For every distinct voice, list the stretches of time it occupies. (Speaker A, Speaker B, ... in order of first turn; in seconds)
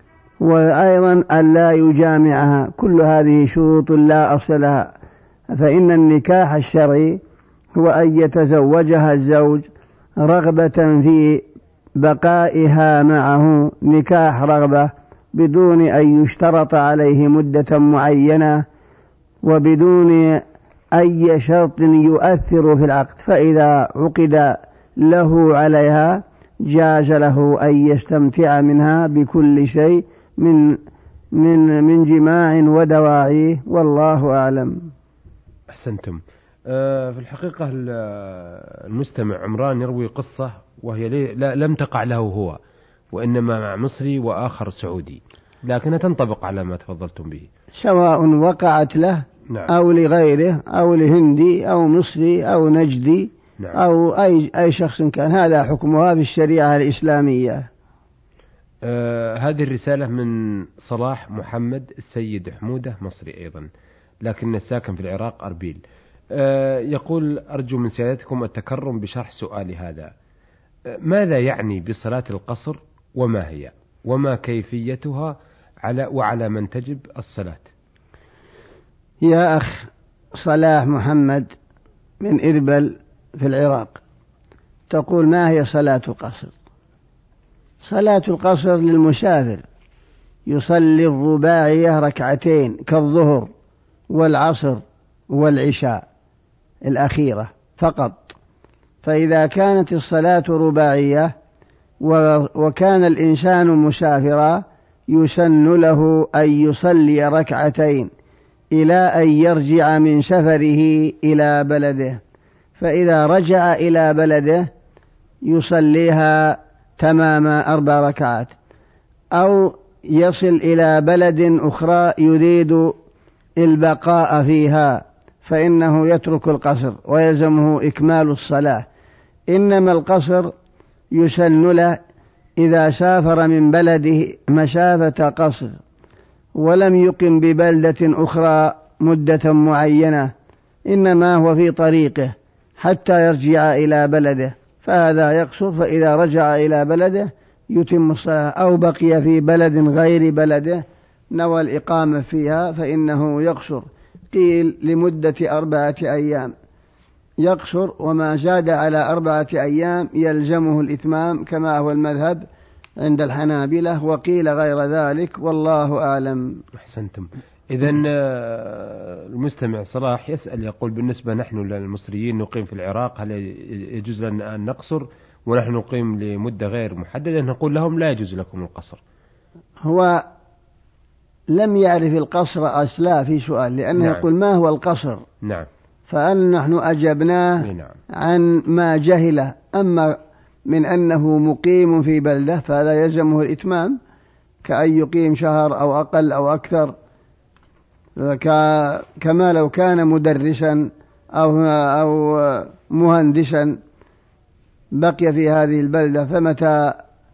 Speaker A: 0.4-4.9, 5.5-7.2, 7.7-9.7, 10.2-11.4, 12.0-18.6, 19.4-20.4, 20.9-30.8, 31.3-34.9, 47.7-57.7, 79.2-81.5, 82.2-84.0, 84.9-86.5, 87.8-89.6, 90.5-93.5, 94.1-96.0, 96.8-98.3, 99.0-101.3, 102.0-108.1, 108.7-112.2, 112.8-114.7, 115.4-118.5, 119.3-122.9, 123.6-128.8, 129.5-130.5, 131.1-132.0, 132.6-135.8, 136.6-140.3, 140.9-156.5, 157.4-162.4, 163.0-166.6, 179.8-180.2, 181.5-185.2, 186.1-187.7, 188.2-190.1, 190.7-193.9, 194.6-196.9, 198.2-203.8, 204.9-206.9
Speaker B: 35.7-42.6, 43.1-47.5, 58.8-63.7, 64.2-65.8, 66.3-70.1, 70.9-77.7, 166.8-179.0, 183.9-184.2, 187.6-188.0